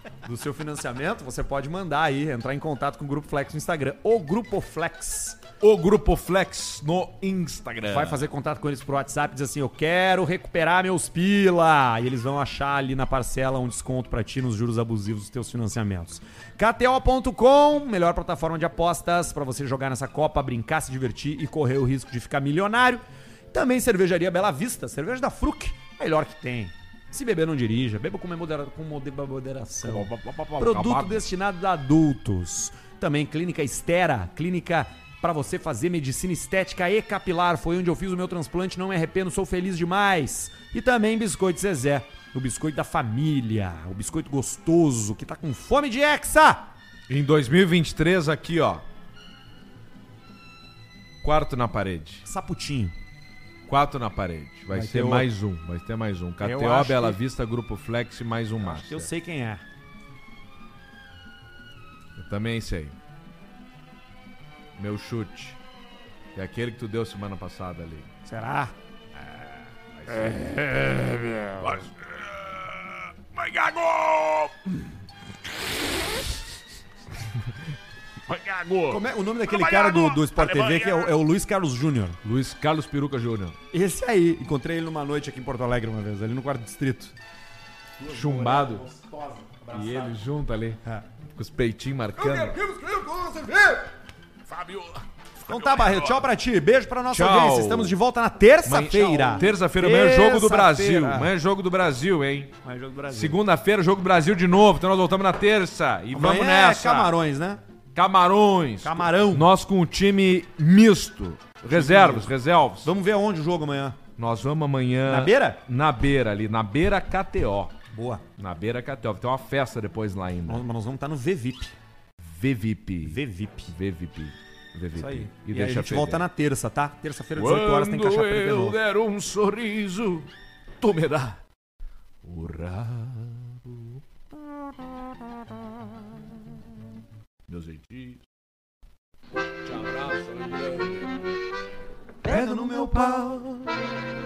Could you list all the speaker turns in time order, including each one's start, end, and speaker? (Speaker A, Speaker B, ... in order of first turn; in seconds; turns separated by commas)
Speaker A: 0.2-5.4, Speaker B: 5.6-8.2, Speaker A: 7.9-46.7, Speaker B: 29.8-31.3, Speaker B: 47.1-48.9, Speaker B: 51.2-52.3, Speaker A: 52.2-53.0, Speaker B: 53.7-59.1, Speaker A: 54.7-55.3, Speaker A: 56.4-57.2, Speaker A: 58.6-59.6, Speaker B: 62.2-63.0, Speaker B: 64.8-65.6, Speaker B: 66.3-68.1, Speaker A: 68.2-68.7, Speaker B: 69.2-74.7, Speaker B: 78.3-81.2, Speaker A: 78.9-82.2, Speaker B: 82.2-83.6, Speaker A: 83.7-87.2, Speaker A: 88.0-90.2, Speaker B: 88.1-88.8, Speaker B: 89.7-90.8, Speaker B: 91.3-92.6, Speaker A: 92.2-93.9, Speaker B: 94.5-96.2, Speaker A: 95.4-101.3, Speaker B: 97.1-98.0, Speaker B: 98.7-102.5, Speaker A: 102.6-103.4, Speaker B: 103.1-107.2, Speaker A: 106.1-107.6, Speaker B: 108.0-112.9, Speaker A: 108.8-109.5, Speaker A: 111.7-114.0, Speaker B: 114.2-117.7, Speaker A: 115.0-115.6, Speaker A: 117.9-118.2, Speaker B: 118.4-120.6, Speaker A: 120.5-121.8, Speaker B: 122.2-126.3, Speaker A: 123.0-123.7, Speaker A: 125.0-128.8, Speaker B: 127.4-131.4, Speaker B: 132.2-134.8, Speaker B: 137.5-138.2, Speaker B: 139.6-141.0, Speaker A: 142.2-143.5, Speaker B: 142.2-143.6